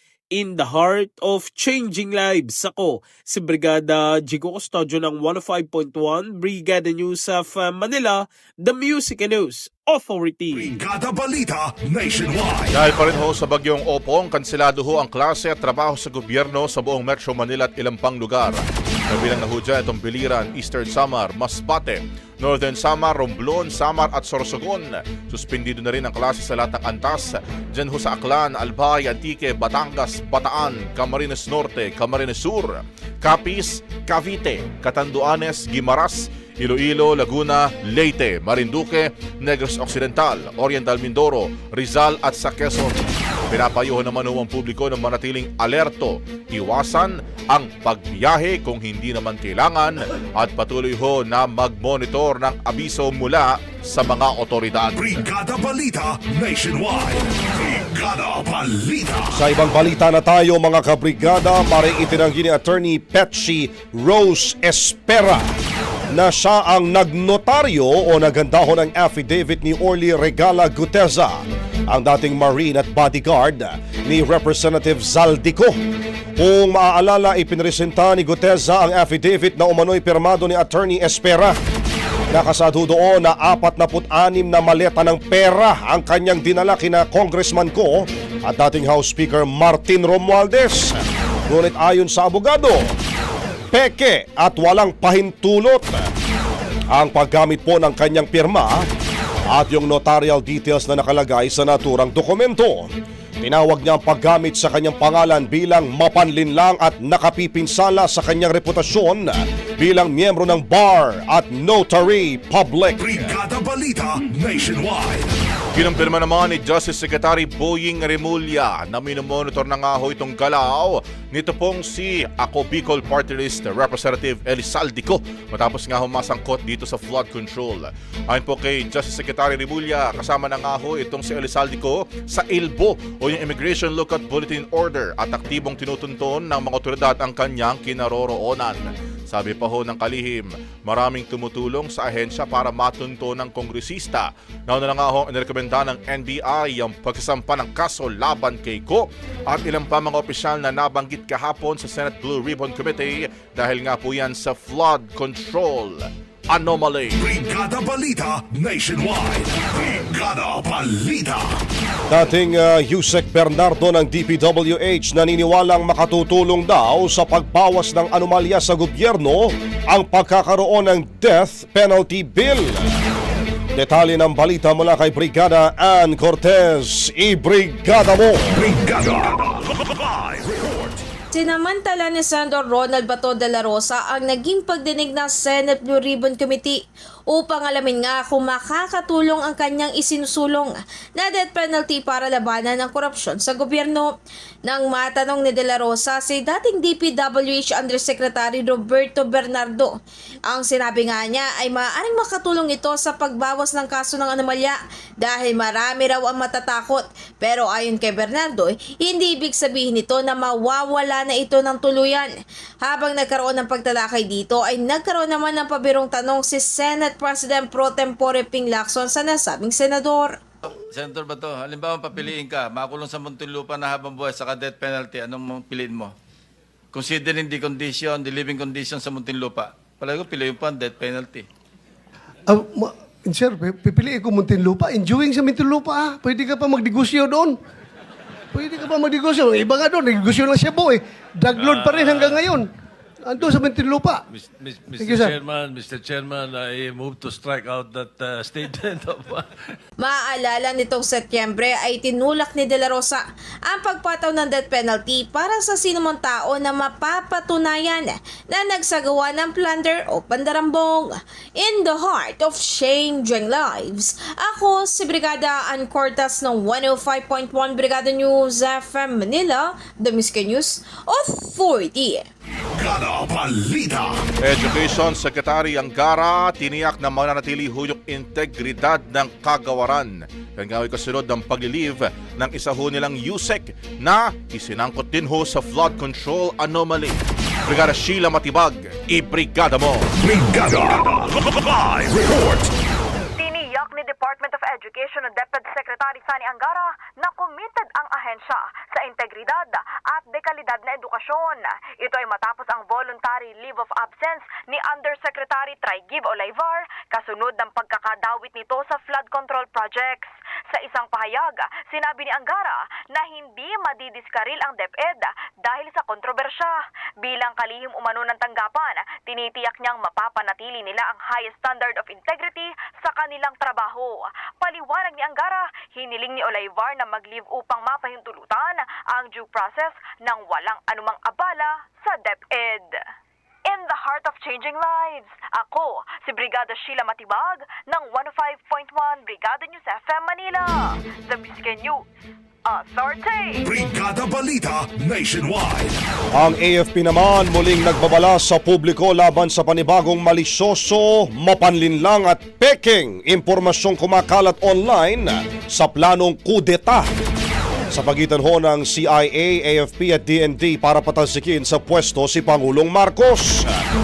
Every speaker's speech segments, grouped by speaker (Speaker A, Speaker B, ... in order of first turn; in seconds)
Speaker A: 0.3-10.7
Speaker B: 10.5-12.8, 55.0-59.4, 113.0-115.3, 157.2-161.6, 178.5-181.0, 272.7-274.2, 290.2-292.7, 343.6-346.0
Speaker C: 12.7-55.2, 115.8-157.2, 274.4-290.1
Speaker D: 59.3-65.5, 66.1-75.8, 76.4-81.6, 82.3-92.8, 93.7-96.0, 96.9-98.9, 99.5-102.9, 103.4-113.3, 162.1-172.9, 173.8-178.6, 346.3-357.1, 357.9-363.7
Speaker E: 181.3-194.1, 194.7-212.3, 212.8-220.4, 250.0-272.3
Speaker F: 220.7-226.1, 226.9-231.5
Speaker G: 232.5-237.6, 238.5-242.7, 243.2-244.2, 245.0-245.4
Speaker H: 241.6-242.4, 244.3-249.6
Speaker I: 293.4-333.0, 333.7-342.0, 342.7-343.7